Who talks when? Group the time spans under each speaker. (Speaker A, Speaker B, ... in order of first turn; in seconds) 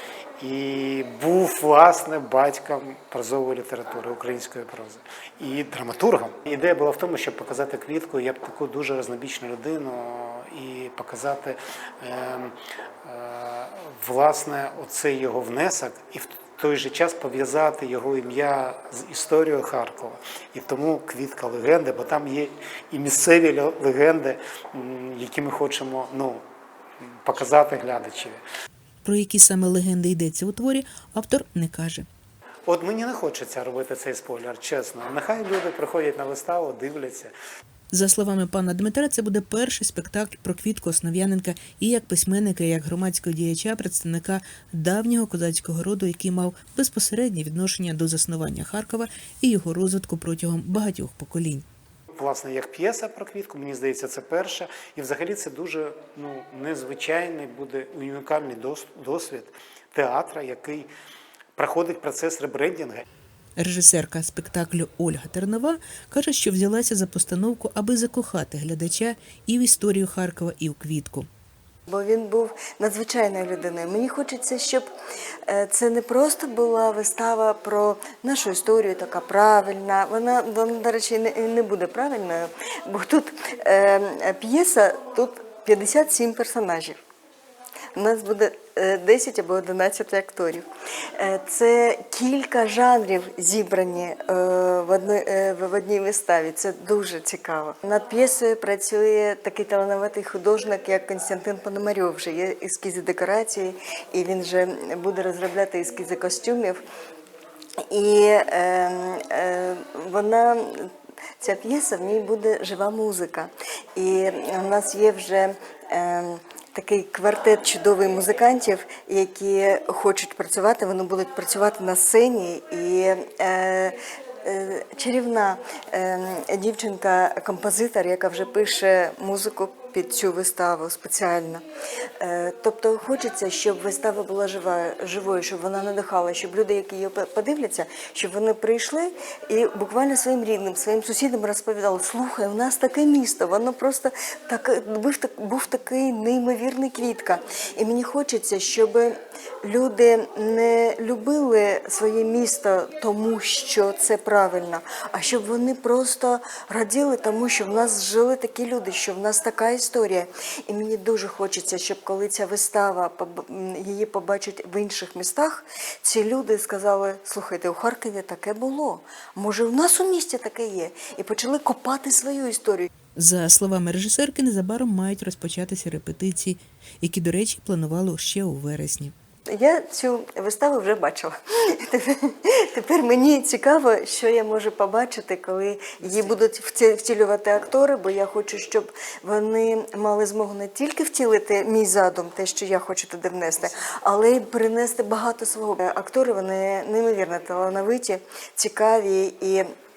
Speaker A: 0.4-26.4, 27.2-28.4, 32.6-37.3, 52.1-60.9, 61.5-63.0
Speaker B: 29.0-32.0, 37.9-51.6, 63.6-71.3, 173.2-179.1
Speaker C: 71.9-74.9, 75.5-87.0, 87.9-90.7, 91.2-106.8, 107.9-131.6, 132.2-149.1, 149.6-172.9, 179.5-199.7